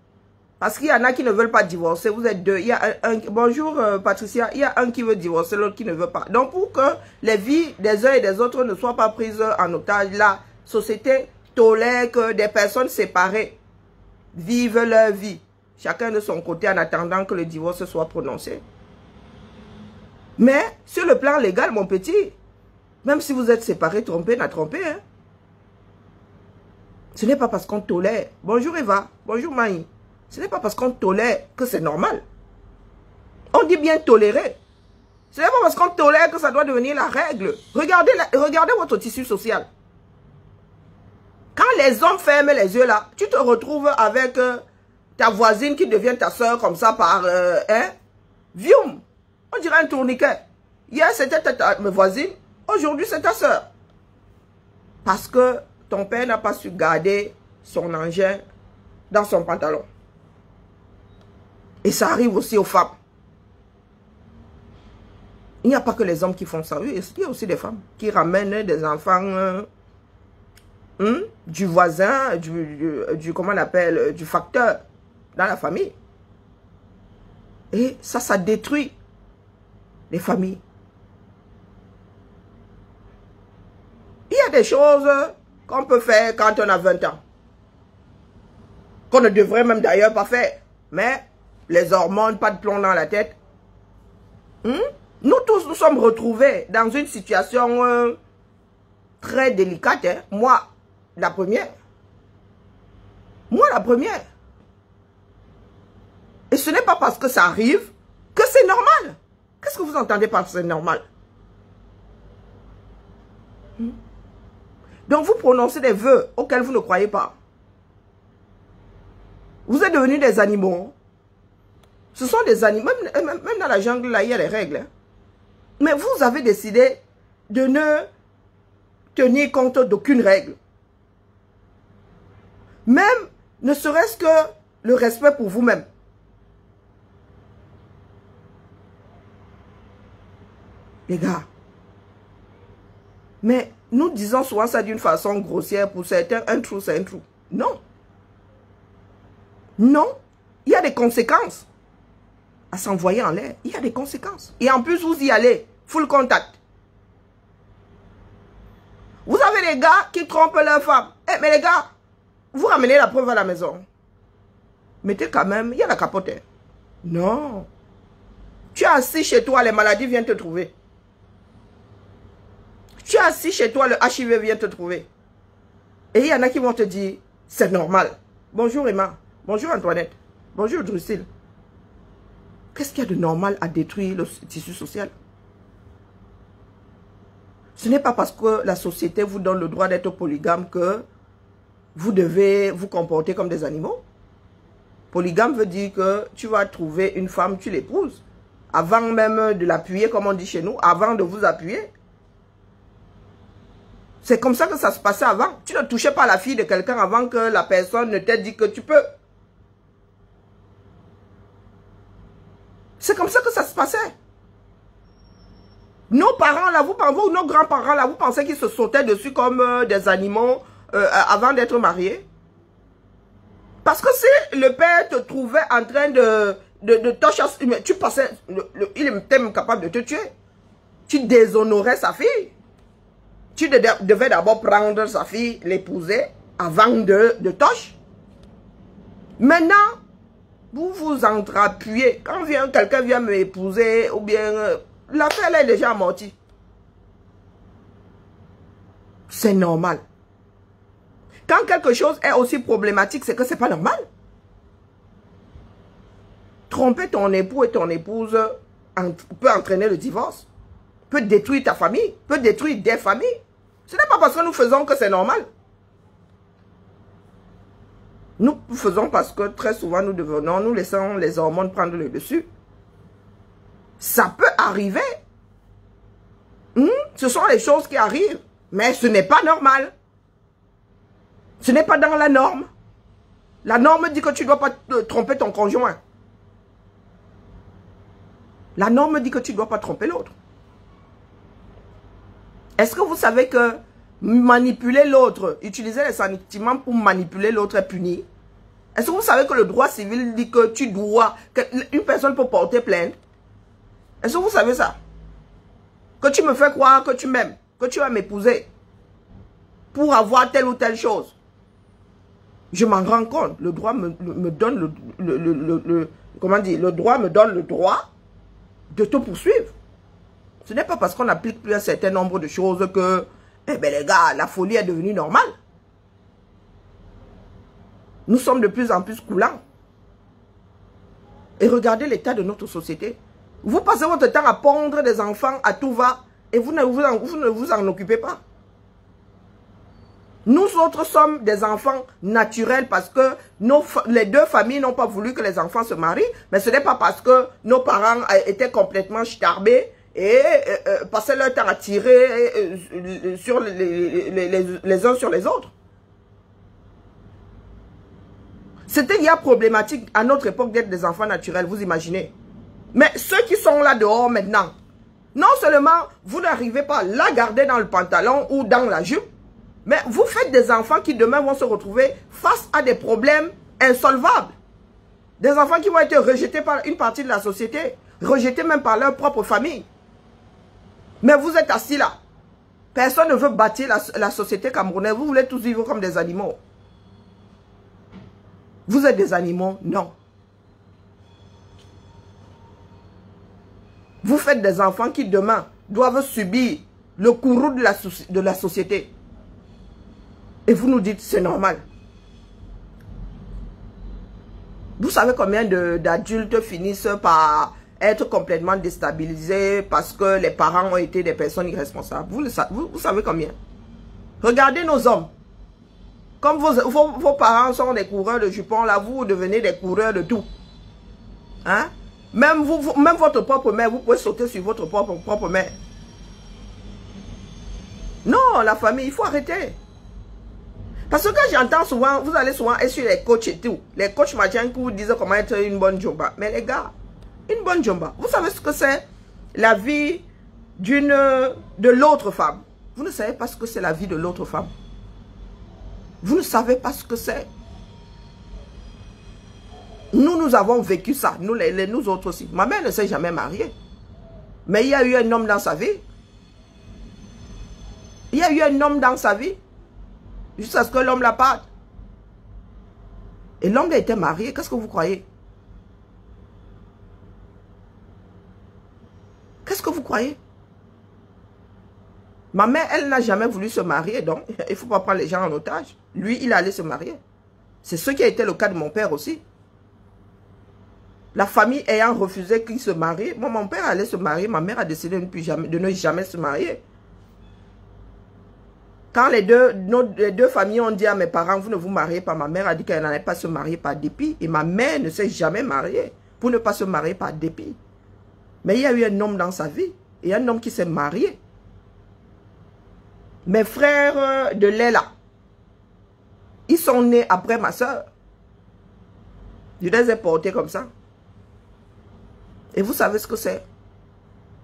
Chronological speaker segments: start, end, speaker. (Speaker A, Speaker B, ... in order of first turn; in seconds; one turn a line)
Speaker A: 0.6-13.6
Speaker A: 14.3-18.6
Speaker A: 20.4-22.4
Speaker A: 23.0-25.0
Speaker A: 27.1-32.2
Speaker A: 33.5-34.6
Speaker A: 35.3-39.7
Speaker A: 41.5-44.6
Speaker A: 45.2-47.9
Speaker A: 48.5-53.7
Speaker A: 55.0-58.4
Speaker A: 59.1-59.9
Speaker A: 61.8-63.0
Speaker A: 65.6-69.7
Speaker A: 71.0-74.8
Speaker A: 75.3-75.9
Speaker A: 77.7-79.0
Speaker A: 80.1-80.6
Speaker A: 84.3-87.2
Speaker A: 89.1-93.4
Speaker A: 94.6-98.2
Speaker A: 99.2-101.7
Speaker A: 103.5-104.2
Speaker A: 106.5-111.0
Speaker A: 115.1-117.3
Speaker A: 119.7-120.9
Speaker A: 122.1-124.9
Speaker A: 125.8-128.1
Speaker A: 129.2-130.6
Speaker A: 132.9-135.8
Speaker A: 141.1-141.5
Speaker A: 143.4-147.8
Speaker A: 149.8-151.7
Speaker A: 152.7-156.6
Speaker A: 159.3-161.9
Speaker A: 162.5-163.8
Speaker A: 165.0-166.4
Speaker A: 167.0-167.7
Speaker A: 168.7-170.7
Speaker A: 173.0-175.1
Speaker A: 176.1-181.3
Speaker A: 182.7-185.1
Speaker A: 187.8-191.1
Speaker A: 191.9-194.0
Speaker A: 195.1-201.9
Speaker A: 204.2-209.0
Speaker A: 213.0-214.1
Speaker A: 216.1-222.2
Speaker A: 223.8-230.3
Speaker A: 231.1-232.5
Speaker A: 233.6-238.0
Speaker A: 239.4-240.0
Speaker A: 240.7-246.4
Speaker A: 249.3-250.0
Speaker A: 251.5-254.0
Speaker A: 256.7-260.5
Speaker A: 261.1-265.4
Speaker A: 268.4-272.5
Speaker A: 274.0-275.2
Speaker A: 276.8-279.9
Speaker A: 281.6-282.7
Speaker A: 283.6-286.0
Speaker A: 288.8-290.3
Speaker A: 292.8-298.3
Speaker A: 298.9-303.1
Speaker A: 304.2-305.0
Speaker A: 306.2-308.7
Speaker A: 309.9-311.3
Speaker A: 312.7-318.1
Speaker A: 318.9-319.7
Speaker A: 320.6-325.5
Speaker A: 328.3-329.6
Speaker A: 331.6-338.4
Speaker A: 340.5-355.7
Speaker A: 358.9-362.3
Speaker A: 362.9-364.7
Speaker A: 365.4-369.2
Speaker A: 369.9-374.5
Speaker A: 375.4-379.9
Speaker A: 381.2-382.2
Speaker A: 382.9-386.6
Speaker A: 388.9-390.1
Speaker A: 394.2-399.1
Speaker A: 400.7-401.8
Speaker A: 405.0-413.6
Speaker A: 414.4-415.3
Speaker A: 416.4-420.5
Speaker A: 421.6-425.8
Speaker A: 428.2-429.8
Speaker A: 431.1-436.9
Speaker A: 437.5-440.3
Speaker A: 440.8-444.7
Speaker A: 446.2-447.5
Speaker A: 450.1-453.7
Speaker A: 454.7-456.0
Speaker A: 458.3-459.6
Speaker A: 460.6-461.7
Speaker A: 463.6-465.2
Speaker A: 469.6-470.4
Speaker A: 472.5-477.2
Speaker A: 477.8-479.4
Speaker A: 481.3-486.8
Speaker A: 489.1-497.8
Speaker A: 498.6-501.4
Speaker A: 503.5-505.1
Speaker A: 506.7-508.1
Speaker A: 509.8-510.9
Speaker A: 512.7-513.6